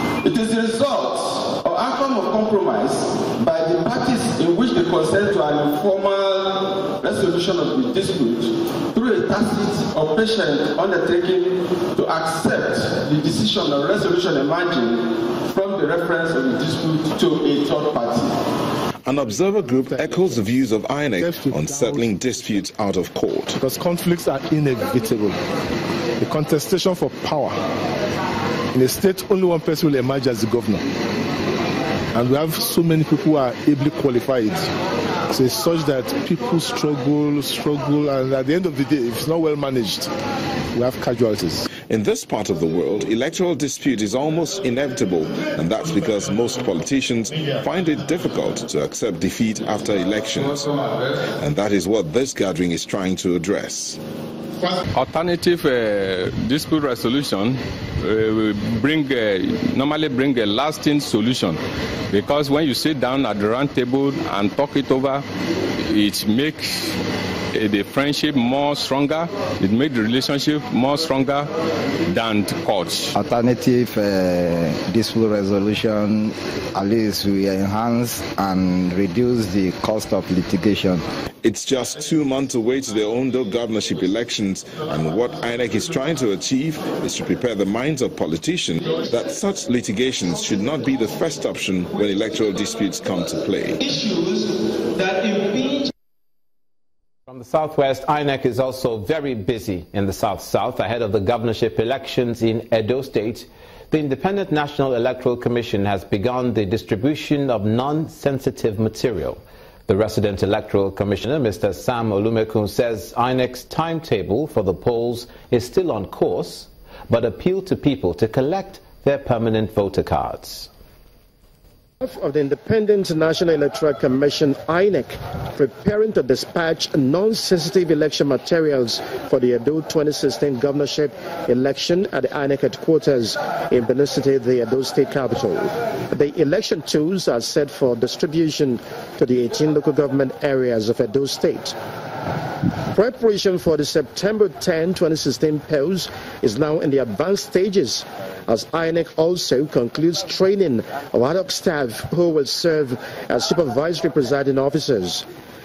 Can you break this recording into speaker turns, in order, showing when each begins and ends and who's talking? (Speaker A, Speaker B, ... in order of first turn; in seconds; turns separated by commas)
Speaker A: 0.2-18.5, Speaker B: 19.1-23.6, Speaker C: 19.8-20.6, Speaker C: 21.1-22.2, Speaker C: 23.6-25.4, Speaker C: 26.2-27.6, Speaker C: 28.7-30.8, Speaker C: 32.1-34.7, Speaker C: 35.3-40.1, Speaker C: 40.7-41.7, Speaker B: 41.9-50.8, Speaker B: 51.4-54.0, Speaker D: 54.9-61.6, Speaker D: 62.1-65.2, Speaker D: 65.8-67.0, Speaker D: 67.5-71.5, Speaker D: 72.0-73.2, Speaker E: 73.2-81.0, Speaker B: 81.4-93.8, Speaker A: 93.8-95.9, Speaker F: 97.3-120.7, Speaker G: 122.0-141.8, Speaker G: 142.9-155.2